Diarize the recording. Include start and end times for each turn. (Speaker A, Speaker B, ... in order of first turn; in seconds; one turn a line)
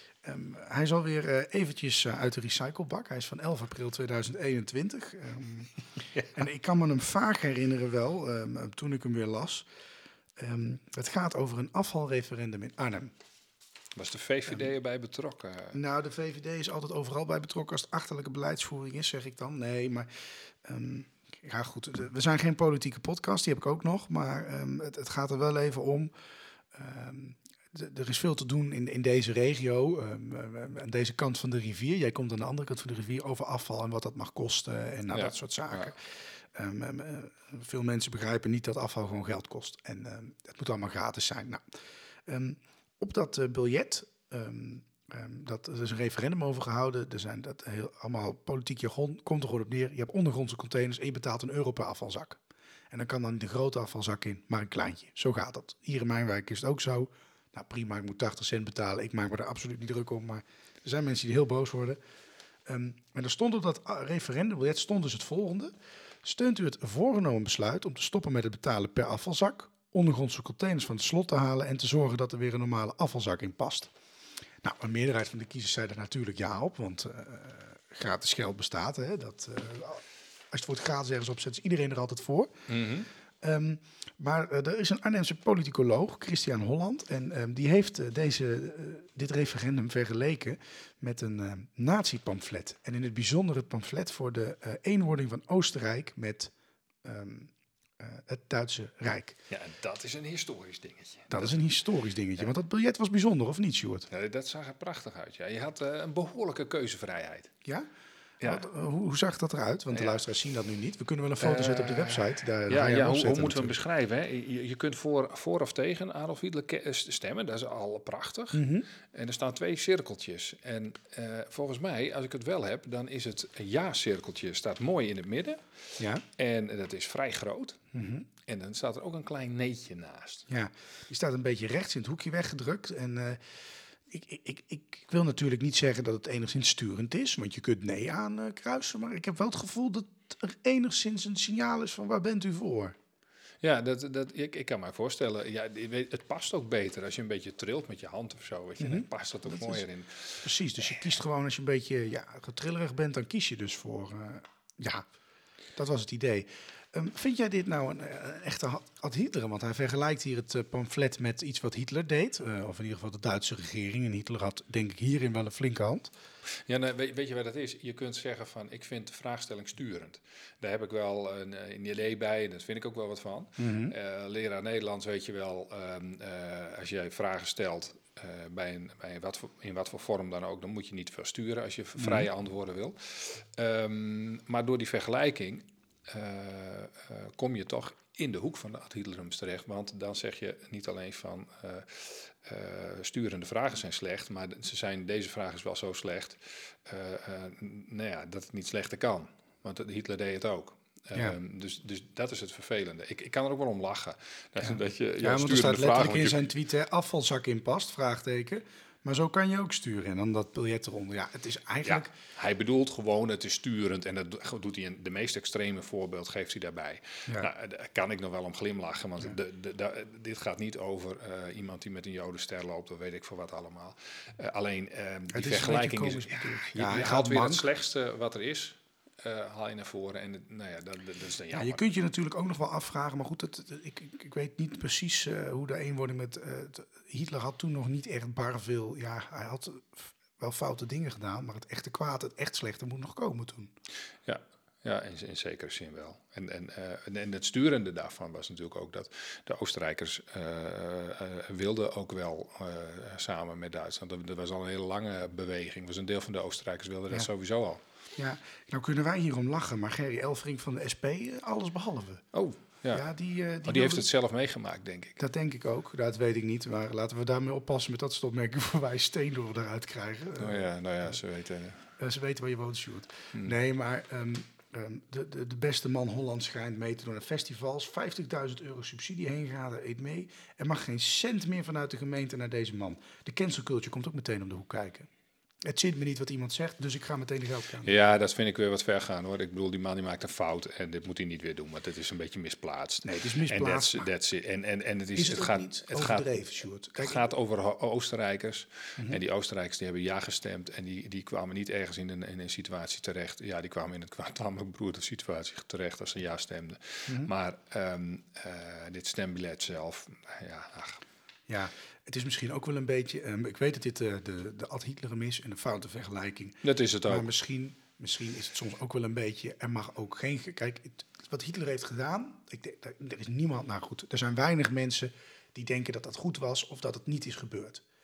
Speaker A: 0.2-5.7
Speaker A: 6.3-9.7
Speaker A: 10.4-13.1
Speaker B: 13.9-15.8
Speaker A: 15.7-26.1
Speaker A: 26.7-41.6
Speaker B: 35.1-35.9
Speaker A: 42.3-52.4
Speaker A: 52.9-62.0
Speaker A: 62.7-73.9
Speaker A: 74.6-82.5
Speaker B: 82.7-83.1
Speaker A: 83.4-99.4
Speaker B: 99.5-101.6
Speaker A: 101.3-104.1
Speaker B: 104.1-107.5
Speaker B: 108.4-108.7
Speaker A: 108.4-113.7
Speaker B: 109.9-110.2
Speaker B: 111.4-125.6
Speaker A: 118.5-118.9
Speaker A: 126.0-126.2
Speaker B: 126.3-127.8
Speaker A: 127.9-128.3
Speaker B: 128.4-130.4
Speaker A: 130.5-142.9
Speaker B: 143.6-151.1
Speaker A: 148.8-149.8
Speaker A: 150.4-155.1
Speaker A: 155.7-166.1
Speaker B: 166.7-206.5
Speaker A: 173.6-173.9
Speaker A: 182.0-182.3
Speaker A: 204.6-212.1
Speaker B: 211.8-231.8
Speaker A: 225.3-227.6
Speaker A: 231.5-243.7
Speaker B: 244.2-257.8
Speaker A: 258.2-262.2
Speaker B: 262.3-263.1
Speaker A: 262.9-264.1
Speaker B: 263.6-265.2
Speaker A: 265.2-270.6
Speaker B: 270.4-271.9
Speaker A: 272.0-285.1
Speaker A: 285.6-287.9
Speaker B: 287.8-296.3
Speaker A: 293.0-294.1
Speaker A: 295.1-297.3
Speaker B: 296.9-311.1
Speaker A: 311.5-327.8
Speaker B: 316.6-317.3